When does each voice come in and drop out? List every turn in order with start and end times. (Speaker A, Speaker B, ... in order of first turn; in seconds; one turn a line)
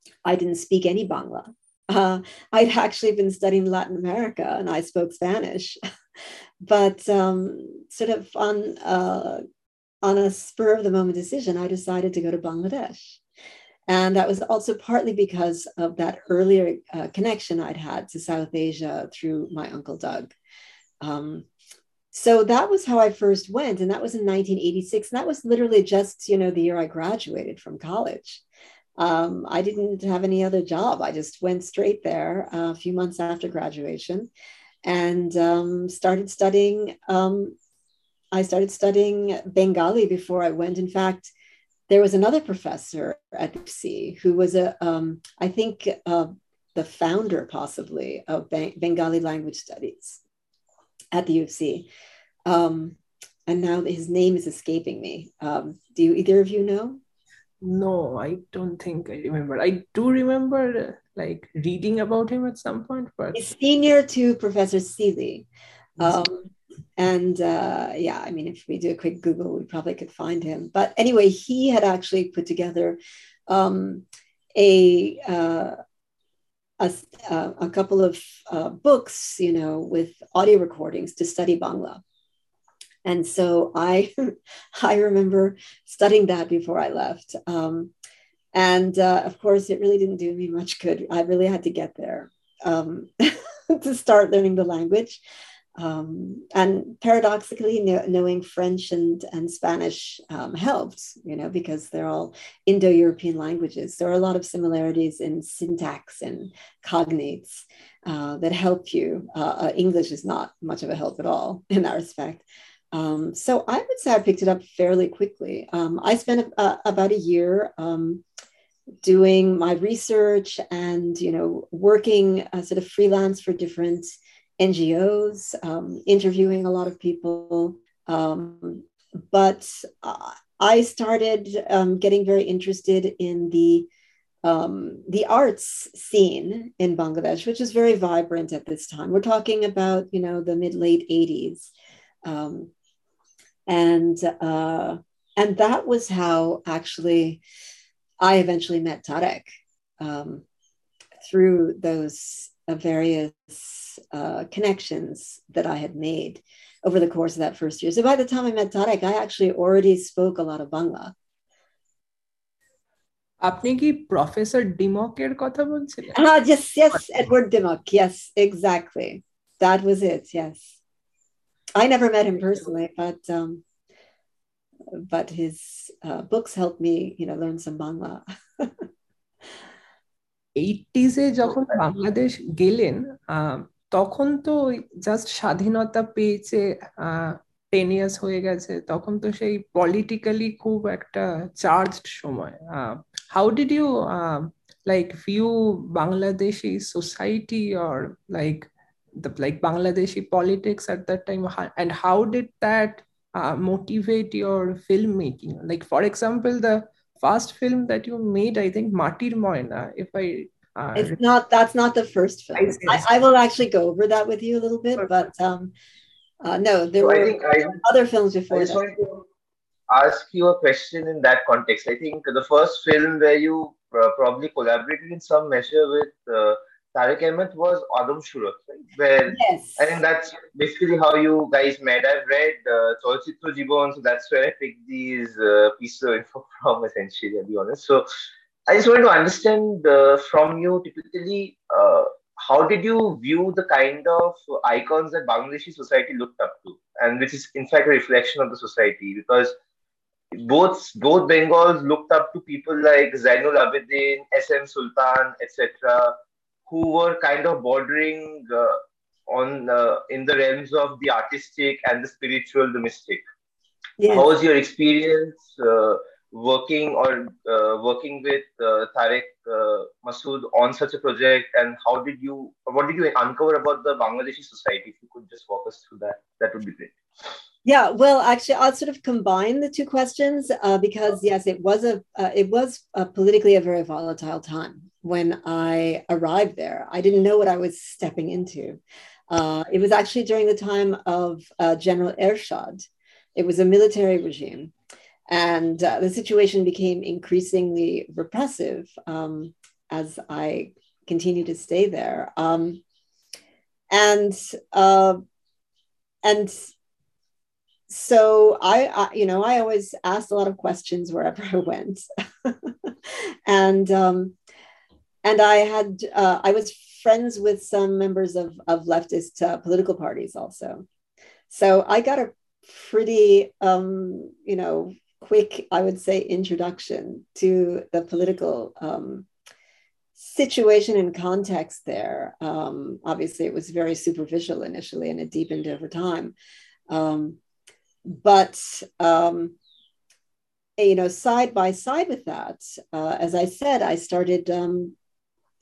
Speaker A: 0.2-5.8
Speaker A: 6.6-9.4
Speaker A: 10.0-13.2
Speaker A: 13.9-20.3
Speaker A: 21.0-21.5
Speaker A: 22.1-28.4
Speaker A: 29.0-34.3
Speaker A: 34.9-37.6
Speaker A: 38.3-41.3
Speaker A: 41.9-50.2
Speaker A: 51.1-51.9
Speaker A: 52.5-57.0
Speaker B: 57.6-63.4
Speaker A: 63.3-65.5
Speaker A: 66.0-74.0
Speaker A: 74.6-75.8
Speaker A: 76.8-82.0
Speaker A: 83.0-87.9
Speaker A: 88.5-95.2
Speaker A: 95.8-118.2
Speaker A: 119.0-133.9
Speaker A: 134.4-141.7
Speaker A: 142.2-142.7
Speaker A: 143.7-147.4
Speaker A: 148.2-149.5
Speaker A: 150.0-150.4
Speaker A: 151.2-161.1
Speaker B: 163.4-166.2
Speaker A: 166.2-170.8
Speaker A: 171.8-173.6
Speaker A: 175.0-178.7
Speaker B: 180.6-211.2
Speaker A: 210.9-215.7
Speaker A: 216.4-218.8
Speaker C: 217.0-217.8
Speaker C: 218.5-219.3
Speaker C: 219.9-238.0
Speaker A: 229.3-230.0
Speaker C: 238.7-249.6
Speaker C: 250.3-256.1
Speaker C: 256.7-263.2
Speaker A: 264.0-264.3
Speaker C: 264.1-276.9
Speaker A: 277.6-294.7
Speaker A: 295.3-302.8
Speaker A: 303.9-305.2
Speaker A: 306.2-306.7
Speaker A: 307.9-312.7
Speaker A: 313.5-314.4
Speaker A: 315.2-320.9
Speaker A: 321.5-329.3
Speaker A: 330.2-336.4
Speaker A: 336.9-337.4
Speaker A: 338.1-339.6
Speaker A: 340.8-344.9